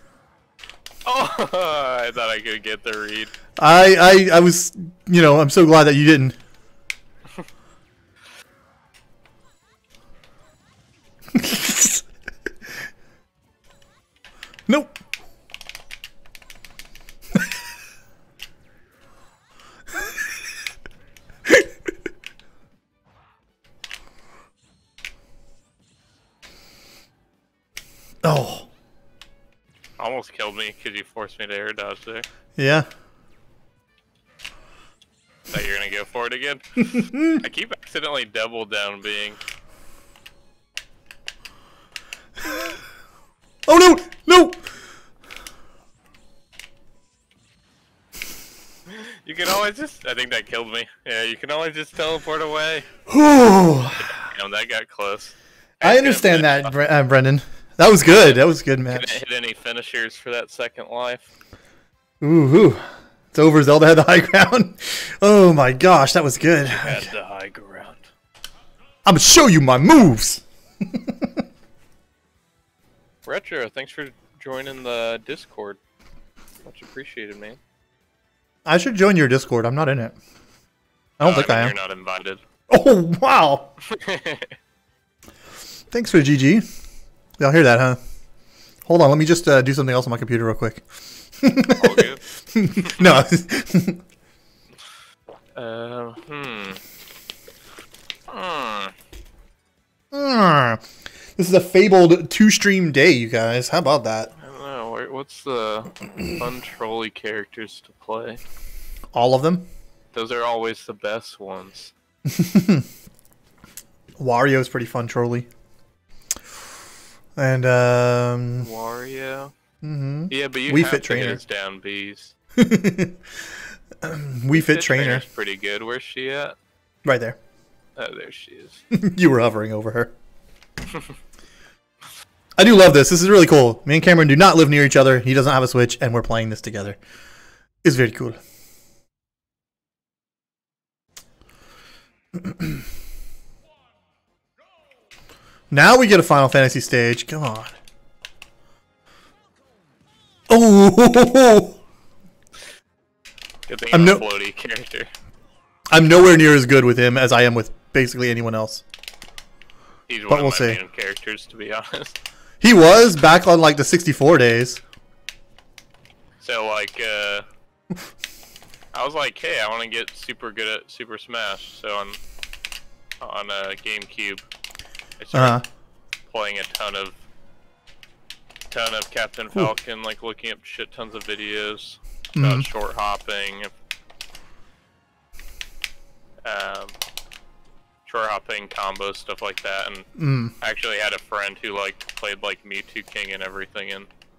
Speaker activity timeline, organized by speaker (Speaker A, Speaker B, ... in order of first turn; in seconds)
Speaker A: 1.0-3.3, 30.0-32.2, 35.5-36.6, 37.3-39.4, 48.9-52.9, 54.0-56.7, 58.9-61.3, 66.7-68.1, 73.2-75.8, 76.6-77.6, 81.2-82.4, 83.8-84.6, 91.7-92.2, 92.8-93.1, 95.5-96.8, 98.3-98.9, 104.4-108.4, 110.1-111.9, 118.6-119.5, 120.3-122.3, 124.5-126.6, 128.0-128.8, 153.7-155.1, 160.1-162.2, 166.4-167.5, 168.9-172.2, 173.2-174.4, 175.2-175.6, 176.3-177.2, 178.7-183.7, 186.4-186.9, 188.1-190.1, 190.6-194.1
Speaker B: 3.6-6.4, 11.3-12.0, 14.7-15.0, 28.2-28.7, 32.6-32.9, 36.8-37.4, 43.7-44.6, 53.1-54.2, 55.8-59.2, 62.2-62.8, 63.3-67.1, 69.0-71.3, 78.7-80.2, 81.2-81.8, 82.7-83.7, 85.9-86.7, 87.4-88.0, 88.9-90.8, 91.4-94.0, 100.1-100.8, 101.4-104.3, 109.1-109.7, 112.3-112.8, 114.2-115.5, 117.4-118.7, 119.8-121.4, 122.6-123.2, 124.0-125.2, 127.0-127.4, 128.9-130.1, 132.6-137.0, 137.8-138.4, 145.7-147.8, 150.5-151.8, 153.9-154.2, 155.9-158.8, 160.3-160.8, 162.6-164.8, 175.3-175.7, 182.3-182.7, 190.2-190.5